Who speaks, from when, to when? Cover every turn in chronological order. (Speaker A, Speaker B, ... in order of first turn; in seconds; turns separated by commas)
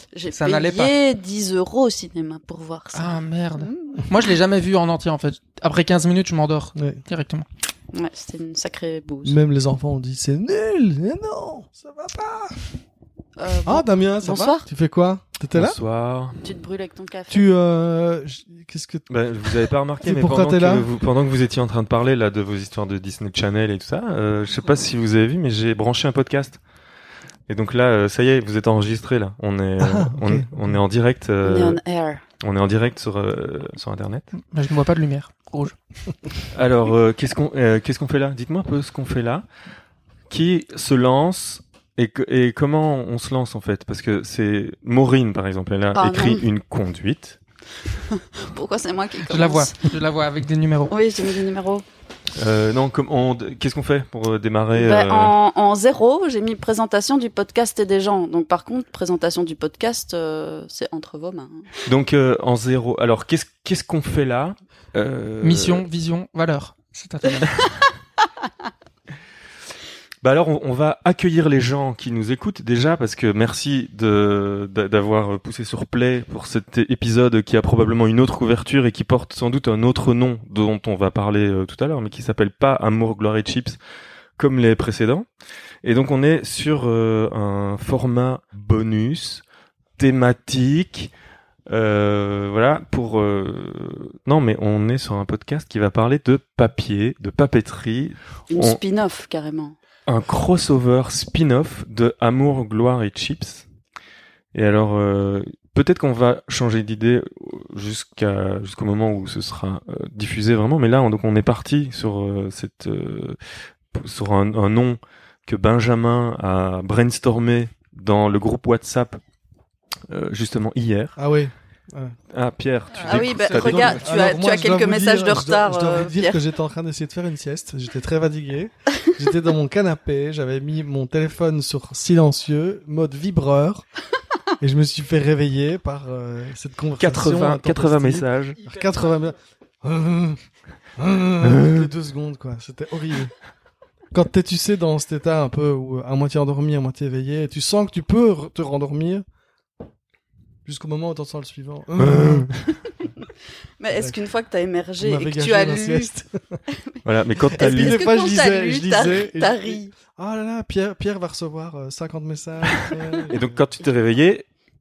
Speaker A: 0.1-4.1, Speaker B: 0.3-0.9, Speaker B: 2.9-7.5, Speaker C: 6.8-7.0, Speaker A: 7.9-9.4, Speaker C: 9.2-12.5, Speaker A: 13.4-14.7, Speaker C: 13.7-15.8, Speaker D: 15.6-16.4, Speaker A: 16.4-17.5, Speaker C: 17.3-19.1, Speaker D: 19.1-26.6, Speaker C: 20.0-20.9, Speaker D: 27.5-31.8, Speaker C: 29.8-30.8, Speaker A: 31.4-32.2, Speaker D: 32.4-34.3, Speaker B: 34.4-35.8, Speaker D: 36.5-39.5, Speaker D: 40.3-47.4, Speaker A: 46.0-46.5, Speaker A: 48.1-49.9, Speaker B: 49.2-50.9, Speaker A: 50.9-51.8, Speaker D: 52.4-55.4, Speaker A: 54.8-61.7, Speaker D: 61.9-65.9, Speaker B: 65.4-67.7, Speaker D: 70.2-83.8, Speaker D: 84.4-85.3, Speaker D: 85.8-89.5, Speaker D: 90.0-91.1, Speaker D: 91.7-98.8, Speaker A: 98.5-99.8, Speaker D: 100.1-103.7, Speaker D: 104.5-113.4, Speaker D: 113.9-119.2, Speaker D: 120.1-121.2, Speaker C: 121.2-122.2, Speaker D: 122.3-123.9, Speaker B: 122.9-124.0, Speaker A: 123.0-126.5, Speaker C: 123.6-133.9, Speaker C: 134.6-140.4, Speaker D: 137.0-138.6, Speaker C: 141.0-143.3, Speaker D: 141.4-141.9, Speaker C: 144.1-149.2, Speaker C: 150.7-152.5, Speaker D: 152.0-152.7, Speaker A: 153.8-156.1, Speaker C: 155.0-156.3, Speaker A: 156.8-159.9, Speaker D: 157.0-158.1, Speaker C: 157.6-163.7, Speaker D: 163.3-164.4